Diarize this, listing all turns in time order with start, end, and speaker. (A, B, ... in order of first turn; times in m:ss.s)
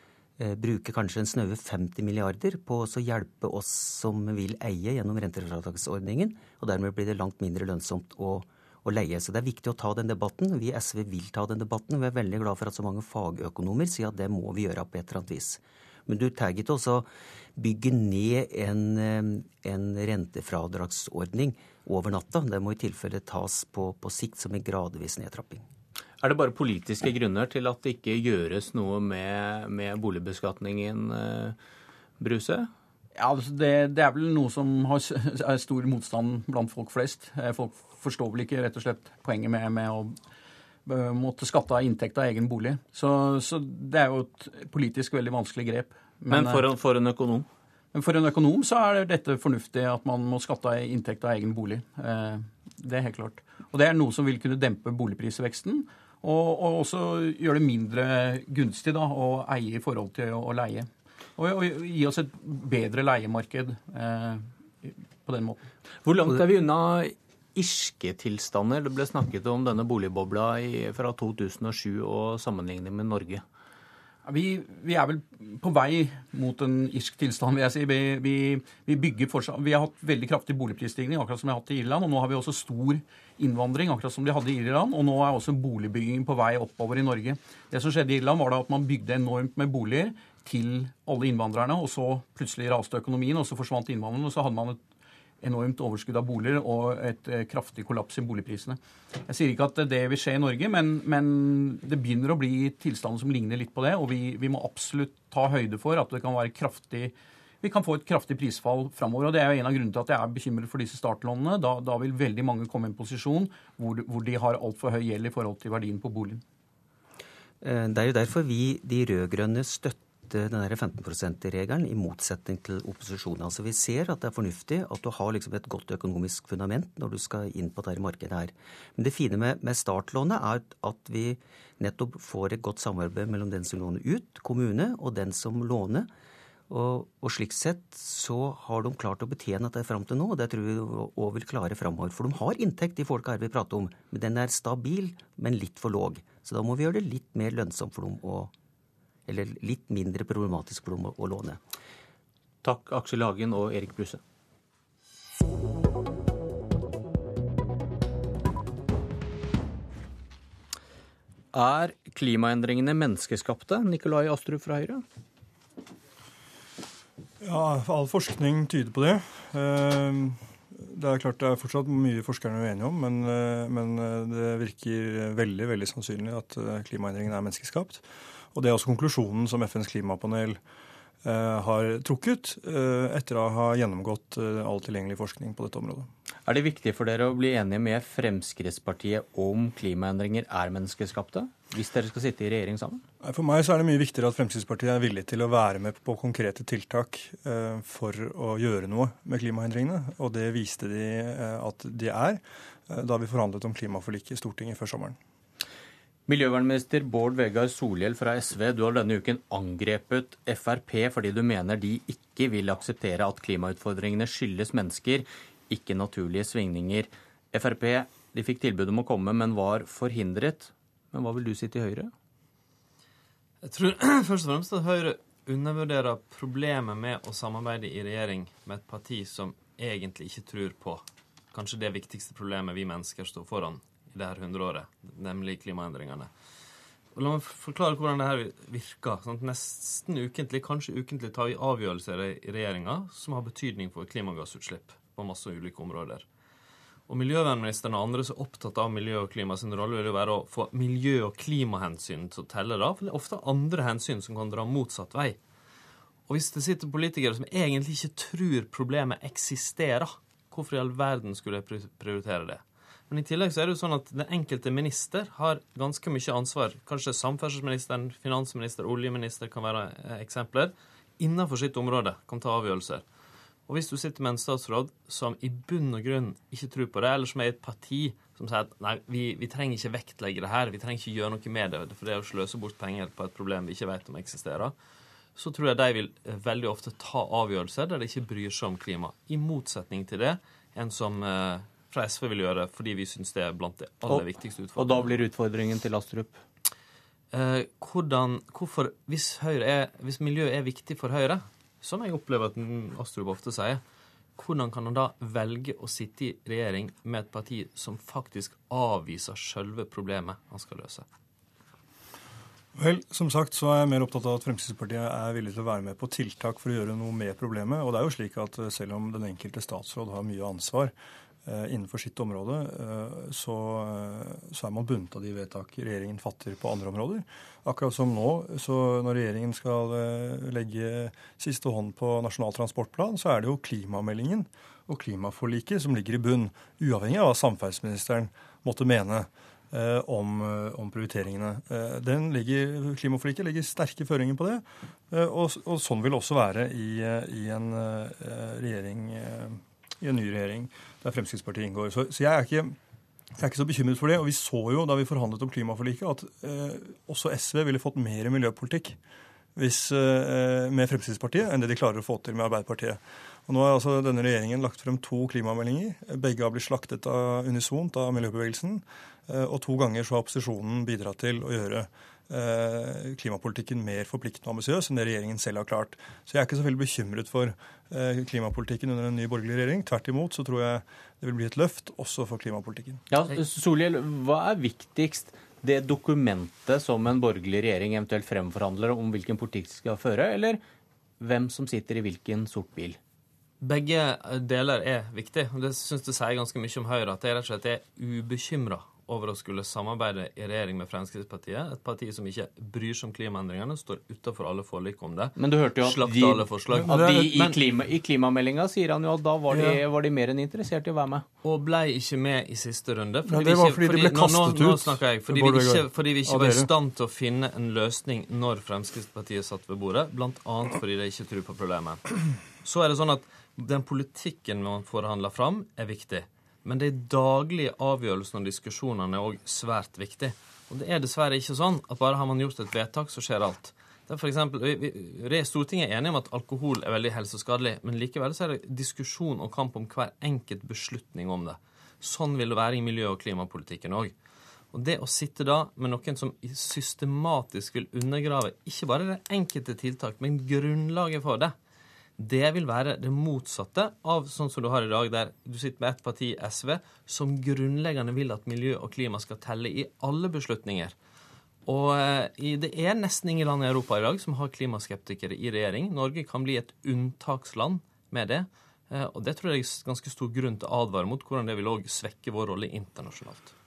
0:00.4-0:25.6 A
0:26.2-0:31.6 B
0:32.2-0:32.7 B
0:33.2-0:40.2 C
0:40.8-0:46.6 C
0:46.3-0:47.5 B
0:47.9-1:05.6 C
1:06.0-1:13.4 B
1:14.2-1:34.8 C
1:35.4-1:56.4 C
1:57.6-2:16.1 A
2:16.7-2:28.5 A
2:29.3-2:31.6 A
2:32.6-2:34.2 B
2:41.5-2:45.0 B
2:47.4-2:58.0 D
2:58.5-3:00.6 D
3:01.2-3:06.1 D
3:06.4-3:13.0 B
3:13.2-3:25.2 D
3:26.3-3:42.1 B
3:43.6-3:56.3 E
3:57.1-4:06.2 E
4:07.1-4:15.4 E
4:16.3-4:33.0 E
4:33.7-4:44.7 E
4:45.3-4:55.2 E
4:54.0-4:56.4 B
4:57.3-5:03.8 E
5:04.4-5:11.0 E
5:12.8-5:20.9 D
5:21.4-5:52.8 D
5:53.4-5:59.0 D
5:59.6-6:23.0 D
6:23.1-6:30.6 B
6:31.2-6:33.0 B
6:33.6-6:46.9 E
6:45.4-6:51.2 B
6:46.7-6:47.4 D
6:51.4-7:02.0 E
6:53.2-6:56.7 D
7:02.6-7:24.1 E
7:24.7-7:31.5 E
7:32.2-7:40.9 E
7:41.6-7:53.5 E